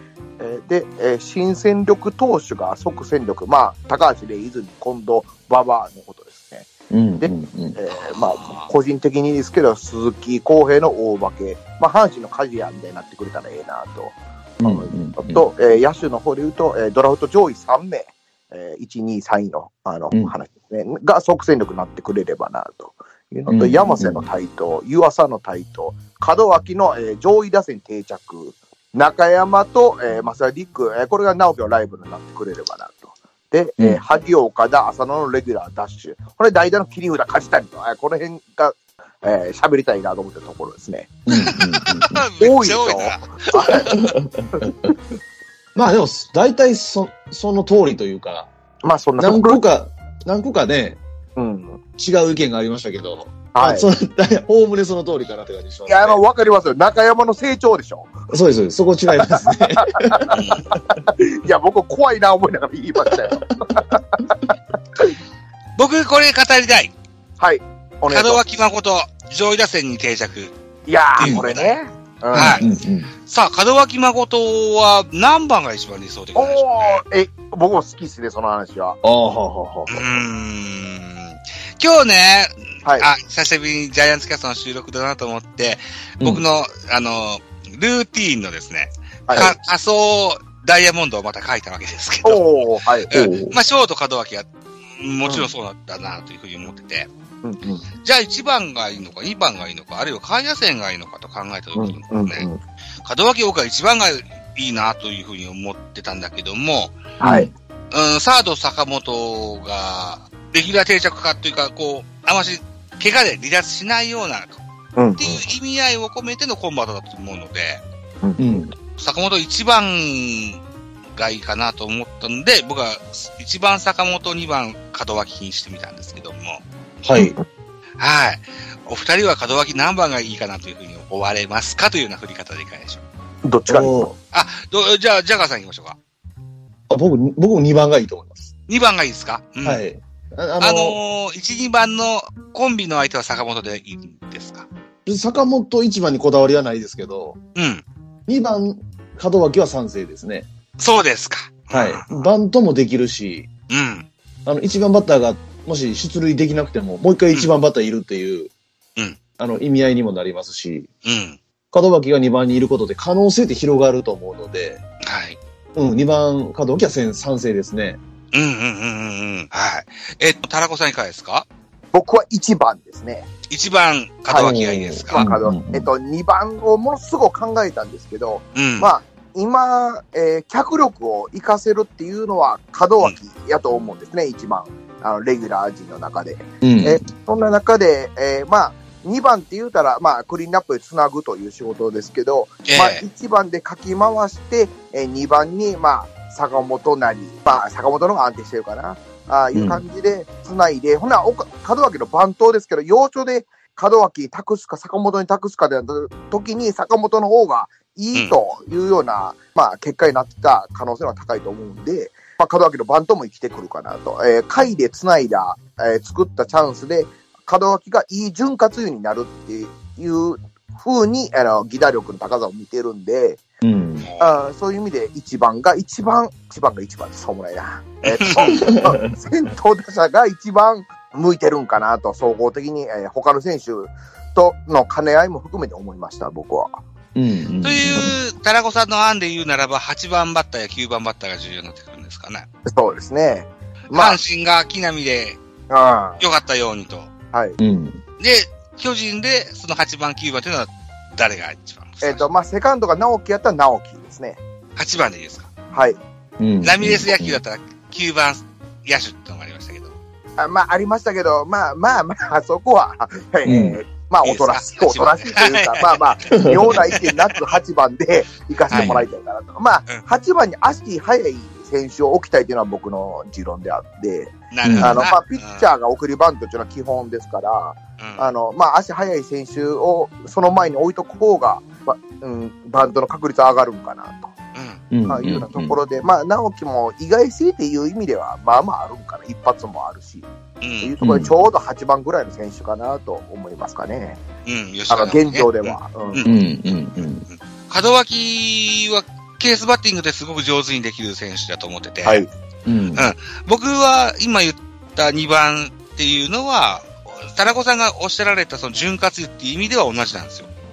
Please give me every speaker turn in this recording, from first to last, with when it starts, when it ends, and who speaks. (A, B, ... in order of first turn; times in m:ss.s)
0:00.4-0:41.1 A
0:06.9-0:07.8 B
0:07.9-0:08.7 C
0:14.6-0:15.5 B
0:23.5-0:24.3 B
0:41.3-0:42.2 B
0:41.3-0:43.9 C
0:42.4-0:44.0 A
0:43.8-0:44.9 B
0:45.8-0:48.5 B
0:48.8-0:49.6 A
0:49.2-0:51.0 B
0:51.4-0:51.8 A
0:52.0-0:56.2 B
0:53.5-0:53.9 A
0:55.9-0:58.2 A
0:58.3-1:00.4 B
0:59.2-1:05.2 A
1:00.3-1:00.7 C
1:03.1-1:03.8 B
1:05.8-1:06.9 C
1:07.4-1:08.4 A
1:08.1-1:10.5 C
1:10.9-1:12.7 A
1:11.2-1:11.7 C
1:11.2-1:11.5 B
1:12.3-1:12.7 C
1:12.3-1:13.1 B
1:13.3-1:17.0 C
1:16.4-1:19.0 A
1:19.0-1:20.1 B
1:19.9-1:37.1 C
1:29.3-1:29.6 A
1:32.2-1:33.1 A
1:33.1-1:33.6 B
1:37.4-1:37.8 A
1:38.0-1:42.5 C
1:41.8-1:42.6 A
1:43.0-1:47.0 C
1:47.2-1:47.5 A
1:47.2-1:47.5 B
1:47.9-1:54.6 C
1:55.0-1:55.5 A
1:55.2-1:57.8 C
1:58.2-1:58.6 A
1:58.4-1:58.7 B
1:59.0-2:00.6 C
2:01.2-2:06.6 C
2:07.0-2:07.4 B
2:08.0-2:13.0 C
2:13.4-2:14.1 A
2:13.7-2:14.2 B
2:14.3-2:16.0 C
2:16.9-2:18.5 B
2:18.7-2:19.8 C
2:19.6-2:21.0 B
2:20.6-2:24.7 C
2:25.1-2:27.4 B
2:27.6-2:27.8 C
2:28.3-2:30.5 B
2:30.8-2:32.2 C
2:31.7-2:33.5 B
2:33.7-2:34.1 C
2:34.5-2:38.5 B
2:39.4-2:40.9 B
2:41.0-2:41.4 C
2:41.7-2:44.8 B
2:45.0-2:45.4 C
2:45.8-2:48.0 B
2:48.3-2:51.5 C
2:51.9-2:53.3 A
2:53.5-2:55.2 C
2:54.3-3:43.4 A
2:54.4-2:55.9 B
2:58.6-2:58.9 C
3:06.6-3:07.0 B
3:12.7-3:13.0 C
3:19.5-3:19.8 B
3:43.6-3:44.1 B
3:44.0-3:44.3 C
3:44.2-3:56.8 A
3:48.0-3:48.6 C
3:48.4-3:49.2 B
3:57.2-3:58.1 B
3:57.6-4:02.5 C
4:02.7-4:04.2 A
4:03.9-4:05.4 C
4:05.7-4:06.2 A
4:06.2-4:07.1 C
4:07.6-4:08.0 B
4:08.2-4:12.3 C
4:12.0-4:14.4 A
4:14.8-4:15.5 C
4:15.7-4:16.0 A
4:16.4-4:17.4 B
4:16.6-4:20.0 C
4:20.4-4:44.3 A
4:23.4-4:23.8 B
4:24.2-4:27.4 C
4:26.3-4:26.9 B
4:28.7-4:29.0 C
4:28.7-4:29.1 B
4:34.5-4:35.7 C
4:34.6-4:35.1 B
4:38.0-4:38.3 C
4:44.6-4:44.8 C
4:44.9-4:45.8 B
4:45.1-4:50.3 A
4:50.6-4:51.0 C
4:50.8-4:54.2 A
4:51.0-4:51.4 B
4:54.5-5:02.3 C
4:54.9-4:56.2 A
4:56.2-4:57.3 B
5:02.7-5:03.1 B
5:03.0-5:10.5 C